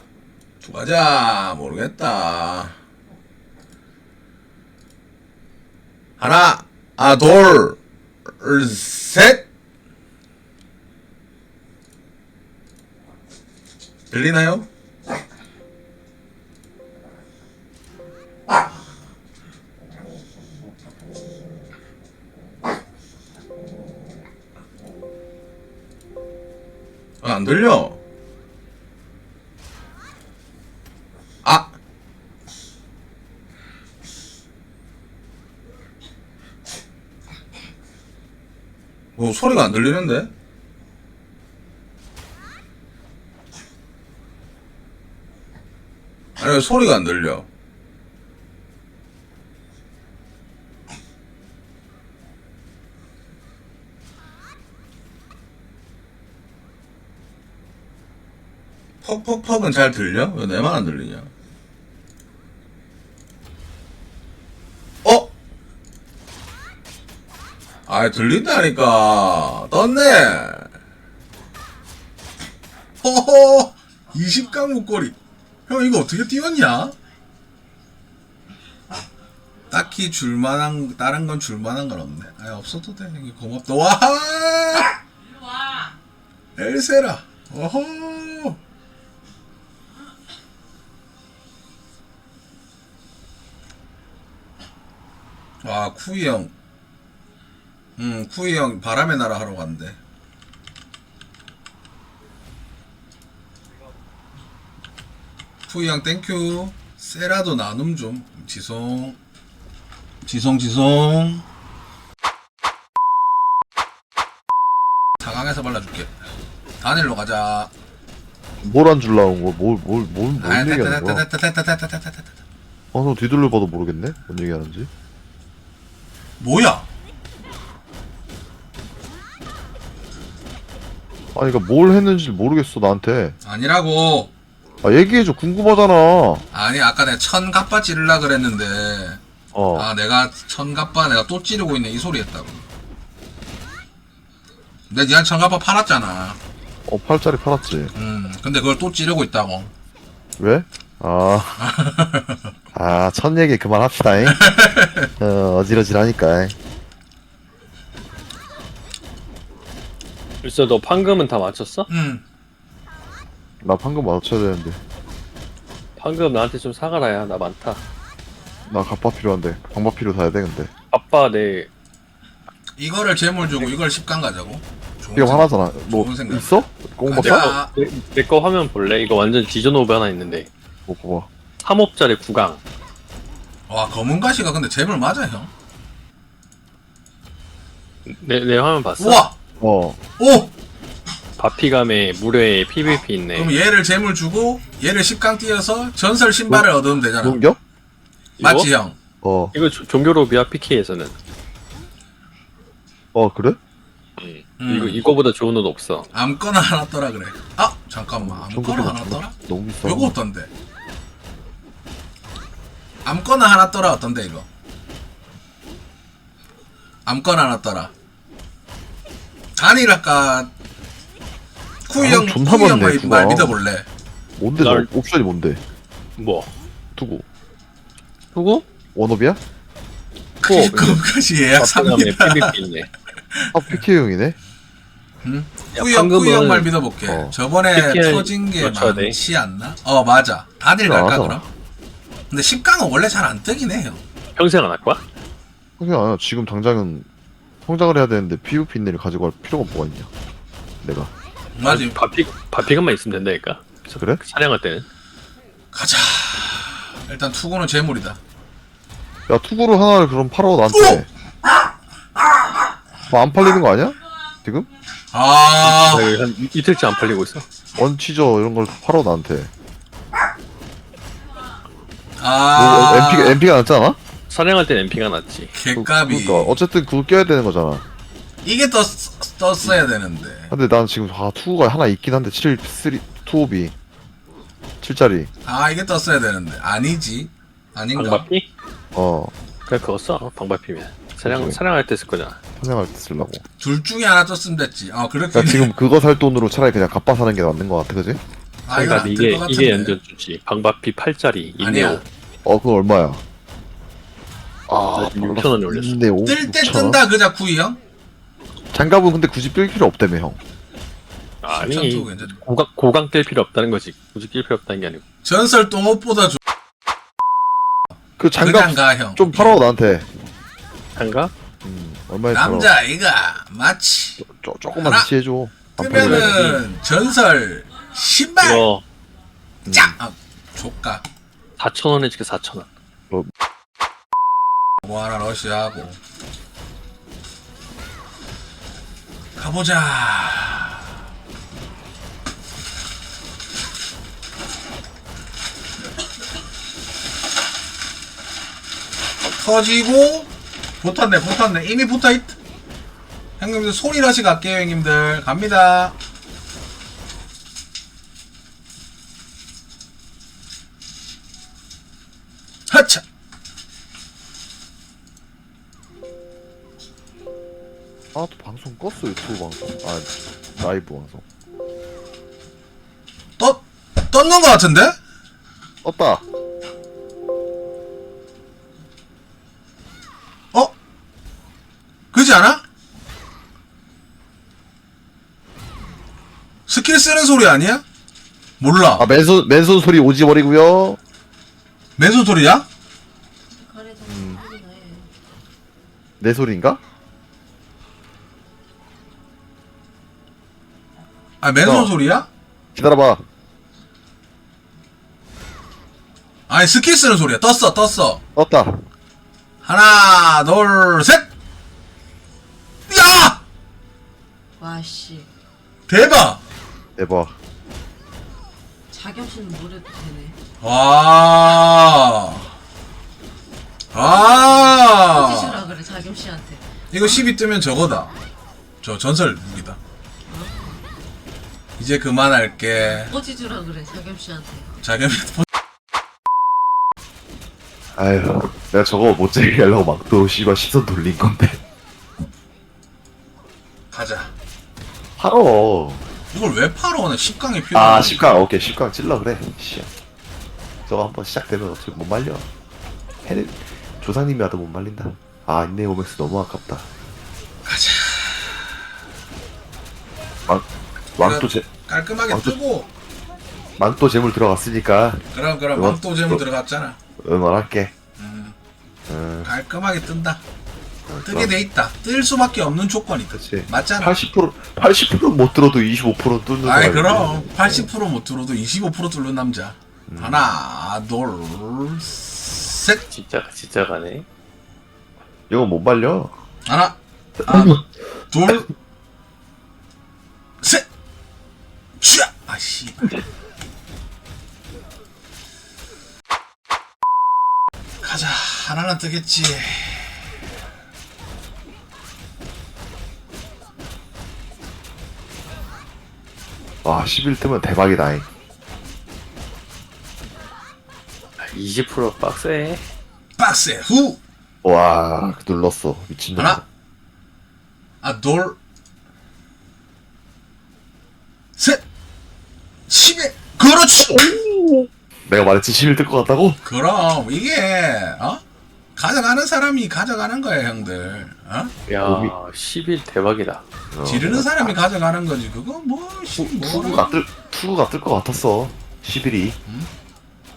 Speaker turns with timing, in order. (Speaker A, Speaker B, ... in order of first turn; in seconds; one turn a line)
Speaker A: 0.6-2.8
Speaker A: 6.2-7.8
Speaker A: 8.4-9.4
Speaker A: 14.1-14.7
Speaker A: 27.2-28.0
Speaker A: 31.4-31.7
Speaker A: 39.2-40.3
Speaker A: 46.4-47.5
Speaker A: 59.0-61.3
Speaker A: 65.0-65.3
Speaker A: 67.9-70.7
Speaker A: 73.0-75.2
Speaker A: 75.7-76.9
Speaker A: 79.7-85.0
Speaker A: 86.6-88.6
Speaker A: 95.6-96.5
Speaker A: 98.0-100.0
Speaker A: 105.7-109.2
Speaker A: 110.3-111.5
Speaker A: 115.2-116.1
Speaker A: 116.8-117.7
Speaker B: 118.6-121.2
Speaker A: 120.4-122.4
Speaker B: 122.9-124.9
Speaker A: 126.4-126.9
Speaker B: 131.3-133.4
Speaker A: 133.4-134.3
Speaker B: 134.8-136.4
Speaker A: 136.5-139.2
Speaker B: 139.5-139.9
Speaker A: 139.7-142.6
Speaker A: 144.9-146.4
Speaker B: 146.9-147.9
Speaker A: 147.9-149.7
Speaker B: 150.4-151.6
Speaker A: 151.6-152.5
Speaker B: 152.7-154.4
Speaker A: 154.2-155.1
Speaker B: 155.2-156.6
Speaker C: 160.4-161.9
Speaker A: 161.9-162.2
Speaker B: 163.6-164.8
Speaker C: 166.0-167.8
Speaker B: 168.7-170.7
Speaker C: 170.9-171.7
Speaker A: 172.8-177.7
Speaker B: 175.2-177.6
Speaker C: 177.2-180.5
Speaker B: 180.9-181.3
Speaker C: 181.6-182.6
Speaker A: 183.7-185.5
Speaker C: 188.1-189.3
Speaker A: 189.0-189.3
Speaker B: 189.6-190.0
Speaker A: 190.2-190.5
Speaker C: 191.4-193.5
Speaker A: 193.3-197.4
Speaker B: 197.2-197.6
Speaker C: 198.4-198.7
Speaker A: 198.4-199.0
Speaker B: 199.2-199.6
Speaker C: 199.5-201.2
Speaker B: 203.1-203.6
Speaker C: 204.2-206.1
Speaker A: 204.6-205.1
Speaker A: 206.1-210.5
Speaker B: 208.2-210.2
Speaker A: 213.1-214.5
Speaker A: 217.1-217.9
Speaker A: 219.6-220.5
Speaker A: 221.9-223.9
Speaker B: 222.0-223.6
Speaker B: 224.4-225.6
Speaker C: 224.6-224.9
Speaker C: 226.2-226.5
Speaker B: 227.0-227.3
Speaker C: 228.3-228.7
Speaker B: 228.9-229.4
Speaker A: 230.4-232.6
Speaker C: 230.5-231.0
Speaker C: 231.6-232.9
Speaker A: 233.3-233.8
Speaker B: 233.5-234.4
Speaker A: 235.2-241.5
Speaker C: 235.7-236.7
Speaker B: 237.1-237.3
Speaker C: 237.7-239.2
Speaker B: 240.8-241.4
Speaker A: 242.3-244.0
Speaker C: 244.3-245.0
Speaker B: 245.8-247.1
Speaker B: 247.7-250.1
Speaker B: 250.8-251.1
Speaker A: 251.6-252.0
Speaker C: 251.6-254.9
Speaker B: 254.0-254.2
Speaker A: 255.7-258.2
Speaker B: 259.3-261.1
Speaker A: 260.7-261.1
Speaker B: 263.1-264.7
Speaker A: 265.1-266.1
Speaker C: 265.6-267.5
Speaker B: 267.8-269.5
Speaker A: 272.2-273.4
Speaker B: 272.5-274.0
Speaker C: 274.3-275.5
Speaker A: 275.5-276.6
Speaker B: 275.8-277.8
Speaker A: 278.4-280.5
Speaker B: 280.5-283.7
Speaker B: 284.8-285.3
Speaker A: 285.4-288.3
Speaker C: 287.9-288.5
Speaker B: 288.9-289.3
Speaker C: 289.7-292.4
Speaker B: 291.2-291.6
Speaker B: 292.6-293.4
Speaker A: 293.6-295.7
Speaker B: 295.3-298.2
Speaker A: 298.7-300.0
Speaker C: 298.7-302.1
Speaker A: 301.6-302.0
Speaker B: 302.4-303.2
Speaker B: 304.7-307.0
Speaker C: 304.9-306.0
Speaker A: 306.2-307.8
Speaker B: 308.7-310.4
Speaker C: 311.4-315.0
Speaker A: 311.5-312.4
Speaker A: 315.2-316.4
Speaker B: 318.2-320.1
Speaker A: 318.4-319.6
Speaker C: 321.0-321.3
Speaker B: 321.6-322.7
Speaker A: 322.3-324.2
Speaker B: 324.2-326.5
Speaker A: 324.8-325.1
Speaker A: 325.8-328.7
Speaker C: 325.9-326.6
Speaker C: 328.4-328.9
Speaker B: 329.7-330.0
Speaker A: 329.7-331.0
Speaker C: 331.6-332.7
Speaker A: 334.8-336.0
Speaker A: 339.4-340.8
Speaker A: 349.4-350.3
Speaker A: 350.8-352.4
Speaker A: 353.4-355.9
Speaker A: 362.7-363.0
Speaker B: 368.1-371.3
Speaker A: 373.4-375.0
Speaker B: 375.8-376.2
Speaker A: 382.1-382.6
Speaker A: 386.7-387.8
Speaker A: 388.6-389.1
Speaker B: 389.0-391.0
Speaker A: 392.0-392.7
Speaker D: 393.5-395.1
Speaker B: 394.1-394.4
Speaker B: 396.2-396.8
Speaker A: 401.4-402.3
Speaker B: 401.6-401.9
Speaker B: 402.7-403.2
Speaker A: 406.5-408.2
Speaker B: 408.4-408.8
Speaker A: 409.6-411.3
Speaker A: 412.9-413.4
Speaker D: 414.6-415.3
Speaker A: 415.9-416.4
Speaker B: 417.0-417.4
Speaker D: 418.9-420.4
Speaker A: 420.6-422.5
Speaker A: 423.9-425.7
Speaker D: 424.2-427.2
Speaker A: 426.9-428.1
Speaker A: 428.8-429.8
Speaker D: 430.3-430.8
Speaker A: 431.8-433.1
Speaker D: 432.7-434.7
Speaker A: 434.8-435.5
Speaker B: 437.9-441.6
Speaker A: 443.9-444.3
Speaker B: 445.2-446.1
Speaker A: 446.3-448.2
Speaker B: 447.7-449.9
Speaker B: 450.9-452.5
Speaker B: 453.2-456.9
Speaker A: 457.6-458.7
Speaker B: 460.5-461.7
Speaker A: 461.2-462.9
Speaker B: 462.3-462.6
Speaker B: 463.8-466.4
Speaker A: 465.3-467.0
Speaker B: 467.2-467.9
Speaker A: 468.2-468.6
Speaker B: 469.1-469.5
Speaker A: 469.4-470.4
Speaker B: 471.1-471.6
Speaker A: 471.2-474.2
Speaker B: 473.3-477.9
Speaker A: 476.6-483.0
Speaker B: 480.1-480.5
Speaker C: 483.1-484.3
Speaker B: 485.5-486.3
Speaker A: 486.7-488.7
Speaker B: 487.5-487.8
Speaker A: 492.0-493.1
Speaker A: 498.0-500.3
Speaker B: 506.8-508.3
Speaker C: 511.4-512.9
Speaker A: 513.4-514.2
Speaker B: 514.6-516.6
Speaker A: 516.4-516.6
Speaker A: 518.0-518.6
Speaker A: 521.6-521.8
Speaker A: 522.9-524.3
Speaker B: 524.0-526.6
Speaker A: 526.6-528.4
Speaker A: 529.0-531.7
Speaker C: 531.9-533.6
Speaker B: 532.0-532.4
Speaker B: 533.9-534.8
Speaker A: 534.0-537.1
Speaker B: 536.4-539.6
Speaker A: 539.6-539.9